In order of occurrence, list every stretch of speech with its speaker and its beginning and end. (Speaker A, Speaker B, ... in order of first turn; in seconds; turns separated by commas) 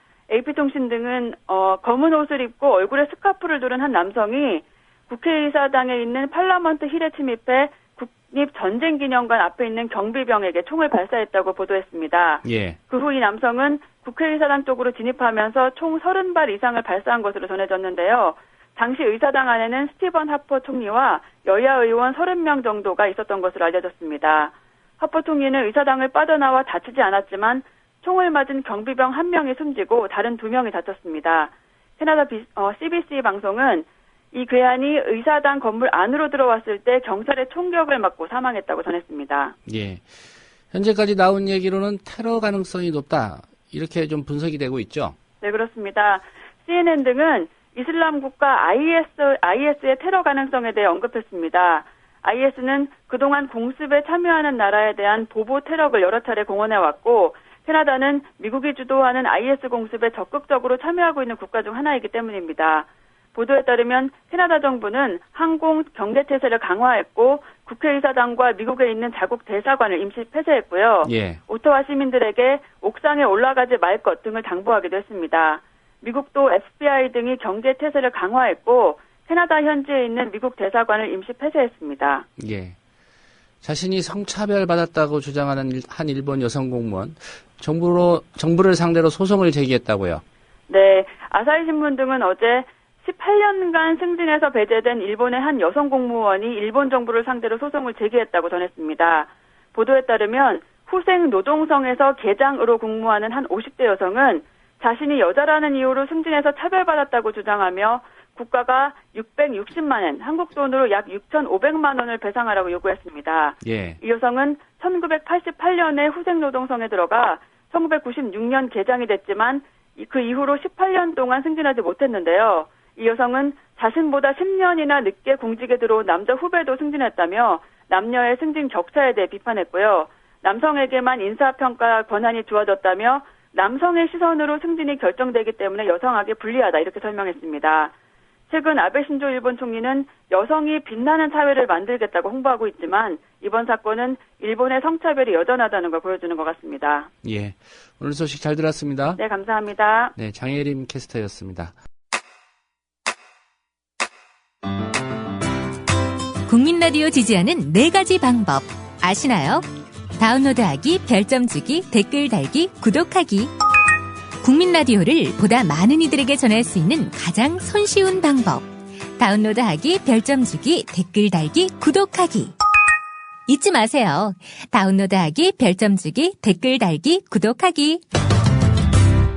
Speaker A: 0.3-39.5, Speaker B: 12.4-12.8, Speaker B: 39.7-40.1, Speaker B: 40.7-45.2, Speaker A: 45.4-82.2, Speaker B: 71.0-71.4, Speaker B: 82.4-82.8, Speaker B: 83.6-90.2, Speaker A: 90.7-137.9, Speaker B: 113.6-114.0, Speaker A: 138.5-147.1, Speaker B: 147.2-149.2, Speaker A: 149.2-150.1, Speaker B: 150.2-151.7, Speaker C: 156.5-159.6, Speaker C: 160.2-163.5, Speaker C: 164.4-172.5, Speaker C: 173.5-178.0